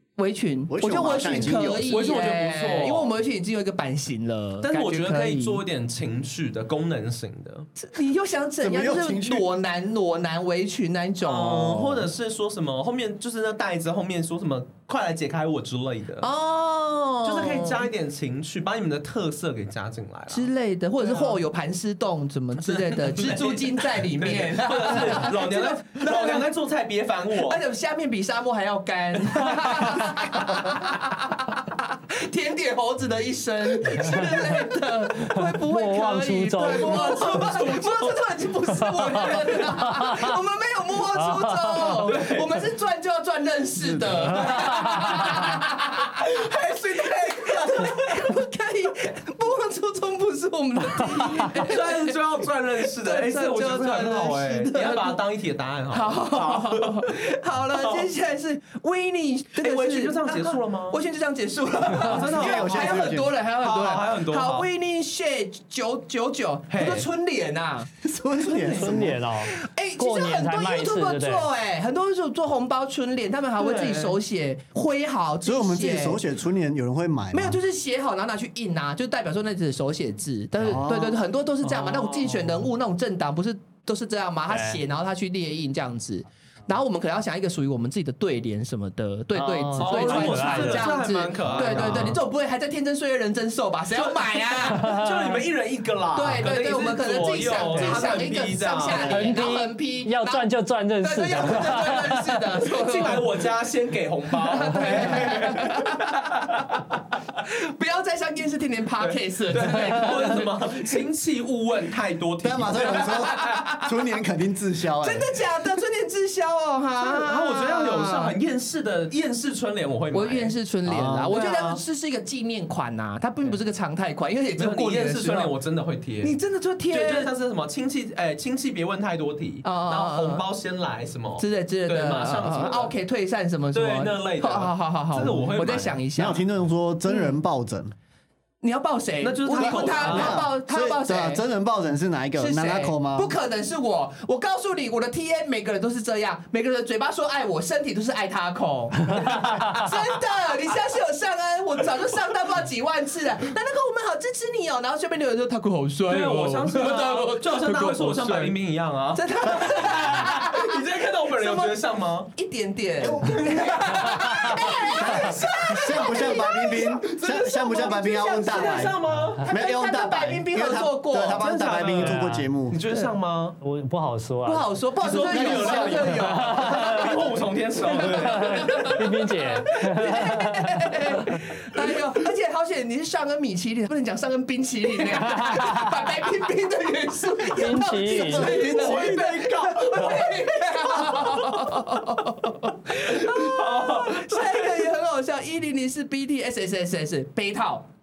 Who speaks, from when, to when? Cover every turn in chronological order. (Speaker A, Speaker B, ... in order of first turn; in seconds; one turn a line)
Speaker A: 0.2-5.6
Speaker B: 0.7-1.9
Speaker C: 1.2-3.1
Speaker C: 4.6-7.7
Speaker A: 7.8-12.1
Speaker B: 8.6-9.4
Speaker C: 11.2-16.3
Speaker A: 16.2-17.9
Speaker C: 17.2-20.5
Speaker A: 20.3-26.5
Speaker C: 21.0-21.4
Speaker C: 22.6-27.6
Speaker A: 27.4-52.2
Speaker C: 29.3-30.8
Speaker D: 34.1-34.4
Speaker D: 35.2-37.2
Speaker C: 36.6-38.3
Speaker C: 38.9-39.8
Speaker D: 39.8-40.4
Speaker D: 41.2-41.8
Speaker C: 41.9-42.7
Speaker B: 43.8-44.5
Speaker C: 44.3-45.6
Speaker C: 46.3-48.1
Speaker C: 51.1-57.1
Speaker A: 52.9-55.2
Speaker A: 55.9-67.9
Speaker C: 57.7-58.1
Speaker C: 59.6-61.0
Speaker C: 61.9-64.7
Speaker B: 62.1-63.3
Speaker C: 66.7-67.1
Speaker B: 68.0-69.2
Speaker A: 68.4-76.2
Speaker D: 68.6-71.5
Speaker C: 73.6-74.2
Speaker B: 75.4-77.6
Speaker A: 77.3-95.0
Speaker B: 80.6-81.2
Speaker C: 81.6-82.6
Speaker D: 84.5-84.8
Speaker D: 89.3-90.9
Speaker C: 89.8-92.2
Speaker D: 91.4-92.2
Speaker C: 93.9-99.5
Speaker A: 96.1-100.5
Speaker D: 98.9-102.5
Speaker A: 101.0-103.3
Speaker C: 102.7-106.9
Speaker A: 104.4-106.6
Speaker A: 107.4-110.5
Speaker C: 109.0-113.6
Speaker B: 112.4-115.3
Speaker A: 112.8-113.8
Speaker A: 115.0-118.3
Speaker C: 117.0-120.5
Speaker A: 120.1-125.5
Speaker B: 120.8-121.3
Speaker C: 121.3-121.8
Speaker C: 124.6-126.4
Speaker A: 126.2-127.3
Speaker C: 126.9-132.9
Speaker A: 129.6-130.4
Speaker A: 131.4-136.4
Speaker C: 133.7-136.0
Speaker B: 136.2-137.9
Speaker A: 137.1-137.3
Speaker A: 138.6-141.4
Speaker C: 139.2-140.4
Speaker B: 139.6-143.3
Speaker A: 142.4-158.5
Speaker C: 156.1-162.3
Speaker A: 159.1-160.8
Speaker A: 161.3-161.8
Speaker A: 162.3-168.9
Speaker B: 163.0-163.9
Speaker C: 163.2-166.2
Speaker B: 164.6-172.8
Speaker C: 167.0-169.4
Speaker A: 169.5-171.5
Speaker C: 171.3-173.6
Speaker D: 172.0-172.5
Speaker D: 173.6-174.7
Speaker A: 174.4-177.3
Speaker C: 175.0-179.0
Speaker B: 175.2-176.2
Speaker D: 175.5-177.3
Speaker D: 177.8-181.4
Speaker A: 177.8-197.8
Speaker D: 185.2-185.9
Speaker D: 187.5-188.6
Speaker B: 188.1-189.3
Speaker C: 188.3-191.9
Speaker C: 193.1-194.9